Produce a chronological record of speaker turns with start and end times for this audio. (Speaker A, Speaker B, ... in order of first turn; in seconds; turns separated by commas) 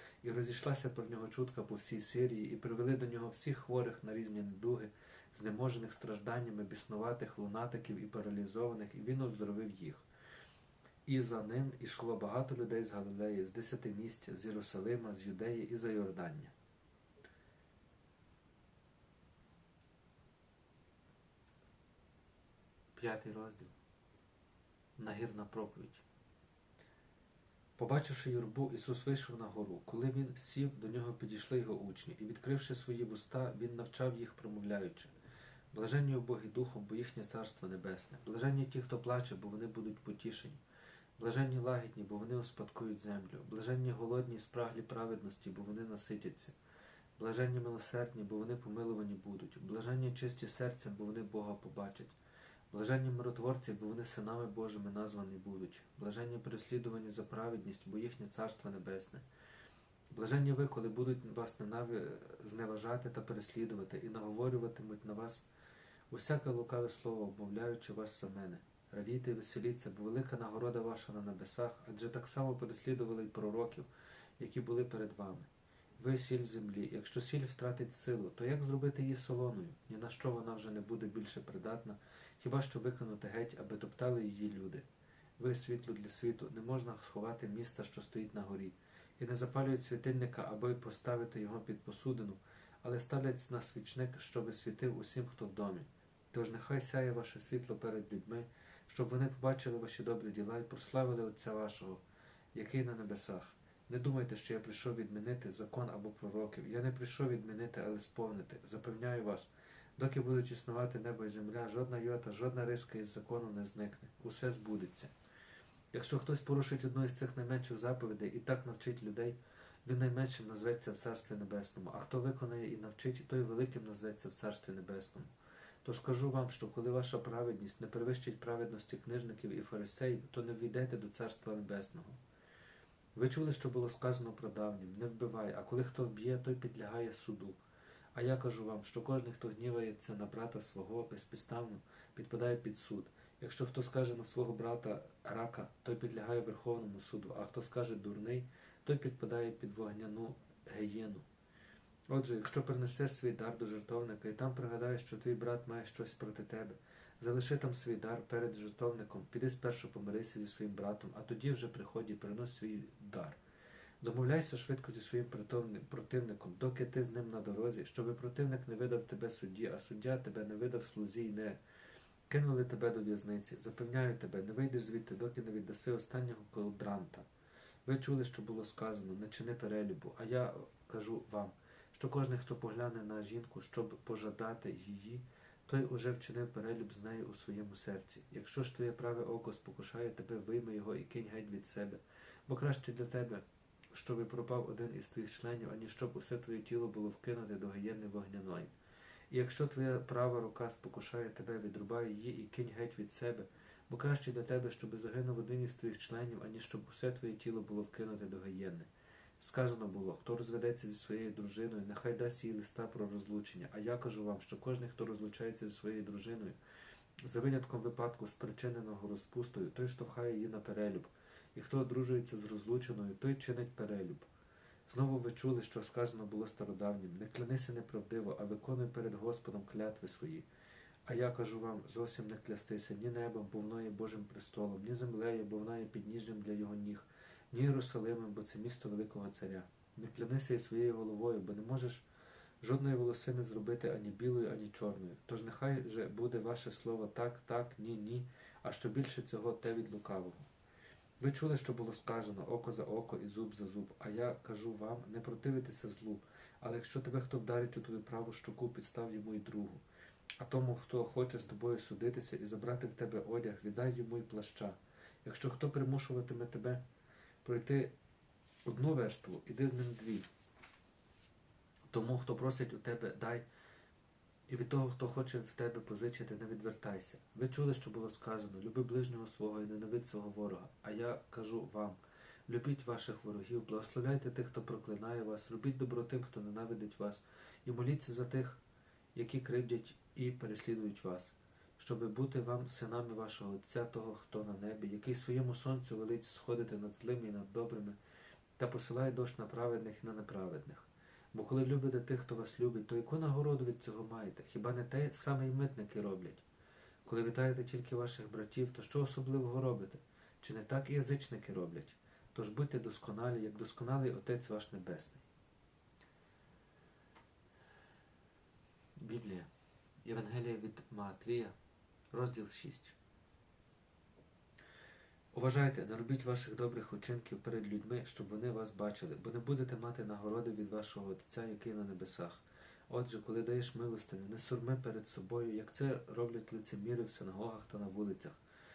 Speaker A: 0.2-10.1, Speaker A: 11.1-16.5, Speaker A: 23.0-23.7, Speaker A: 25.0-26.0, Speaker A: 27.8-35.1, Speaker A: 35.7-40.6, Speaker A: 41.2-46.5, Speaker A: 47.2-52.1, Speaker A: 52.7-59.2, Speaker A: 60.1-65.5, Speaker A: 66.1-84.8, Speaker A: 85.4-102.0, Speaker A: 102.5-115.1, Speaker A: 115.9-125.3, Speaker A: 125.8-132.2, Speaker A: 133.2-137.6, Speaker A: 138.1-151.3, Speaker A: 152.1-163.4, Speaker A: 164.0-171.6, Speaker A: 172.3-177.3, Speaker A: 177.9-198.7, Speaker A: 199.3-208.9, Speaker A: 209.4-216.6, Speaker A: 217.2-224.2, Speaker A: 224.9-230.5, Speaker A: 231.1-242.1, Speaker A: 242.6-250.5, Speaker A: 251.2-259.8, Speaker A: 260.4-266.8, Speaker A: 267.4-267.9, Speaker A: 268.6-270.3, Speaker A: 271.9-273.4, Speaker A: 274.5-288.6, Speaker A: 289.1-298.0, Speaker A: 298.6-306.4, Speaker A: 307.1-315.2, Speaker A: 319.0-319.5, Speaker A: 320.0-321.6, Speaker A: 322.1-322.9, Speaker A: 325.3-338.4